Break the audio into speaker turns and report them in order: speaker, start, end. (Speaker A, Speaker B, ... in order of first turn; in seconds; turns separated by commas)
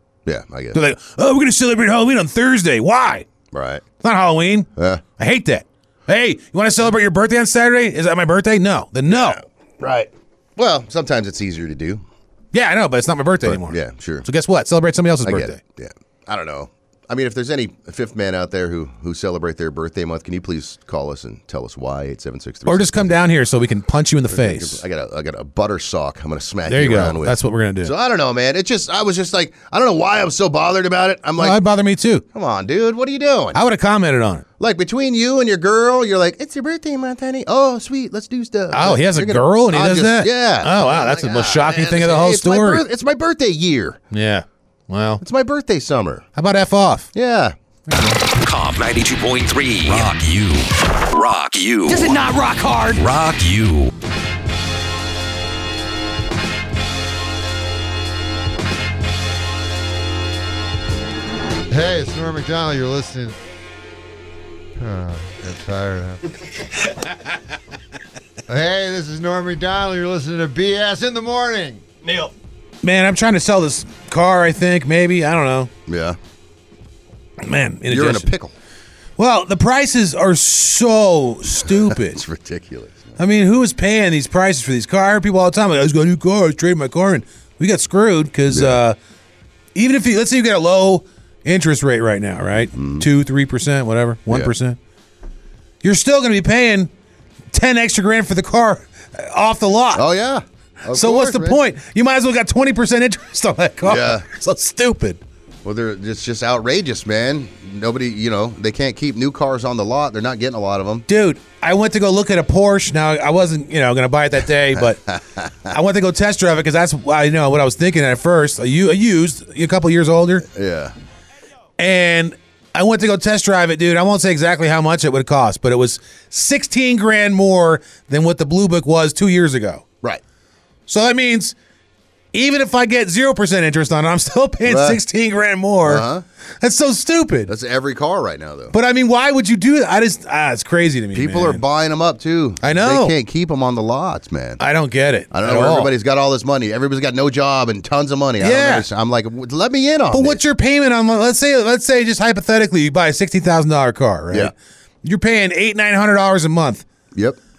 Speaker A: 0.3-0.8, Speaker B: 0.7-3.3, Speaker A: 3.5-3.9, Speaker B: 4.0-9.4, Speaker A: 4.8-5.0, Speaker A: 9.1-12.0, Speaker B: 12.5-15.6, Speaker A: 13.4-14.3, Speaker A: 15.2-23.2, Speaker B: 22.7-24.8, Speaker A: 24.3-31.6, Speaker B: 26.7-27.9, Speaker B: 31.4-32.2, Speaker A: 32.3-33.6, Speaker B: 33.5-34.5, Speaker A: 34.6-44.0, Speaker B: 38.7-42.9, Speaker B: 44.1-45.2, Speaker A: 45.2-46.3, Speaker B: 46.4-47.1, Speaker A: 47.1-47.5, Speaker C: 48.3-52.3, Speaker B: 51.9-53.0, Speaker C: 52.9-53.9, Speaker D: 61.7-63.4, Speaker D: 64.8-66.2, Speaker D: 68.5-71.9, Speaker B: 72.8-75.7, Speaker A: 75.9-76.2, Speaker B: 77.4-78.3, Speaker A: 77.9-78.5, Speaker B: 79.2-82.2, Speaker A: 81.6-83.2, Speaker B: 83.2-89.0, Speaker A: 88.5-88.8, Speaker B: 89.8-94.8, Speaker A: 92.7-93.1, Speaker B: 95.8-96.9, Speaker B: 97.5-100.0, Speaker A: 100.0-101.6, Speaker B: 100.9-105.2, Speaker A: 103.8-104.3, Speaker A: 105.6-111.1, Speaker B: 111.1-115.0, Speaker A: 114.7-115.7, Speaker B: 115.7-120.5, Speaker A: 120.5-120.9, Speaker B: 121.8-129.8, Speaker B: 130.9-131.6, Speaker B: 132.3-136.1, Speaker A: 134.7-135.0, Speaker A: 135.8-136.2, Speaker B: 136.6-137.5, Speaker A: 137.5-138.8, Speaker B: 138.7-141.6, Speaker A: 141.1-144.6, Speaker B: 142.6-143.1, Speaker B: 144.6-145.9, Speaker A: 145.3-150.4, Speaker B: 148.4-148.9, Speaker B: 150.1-156.9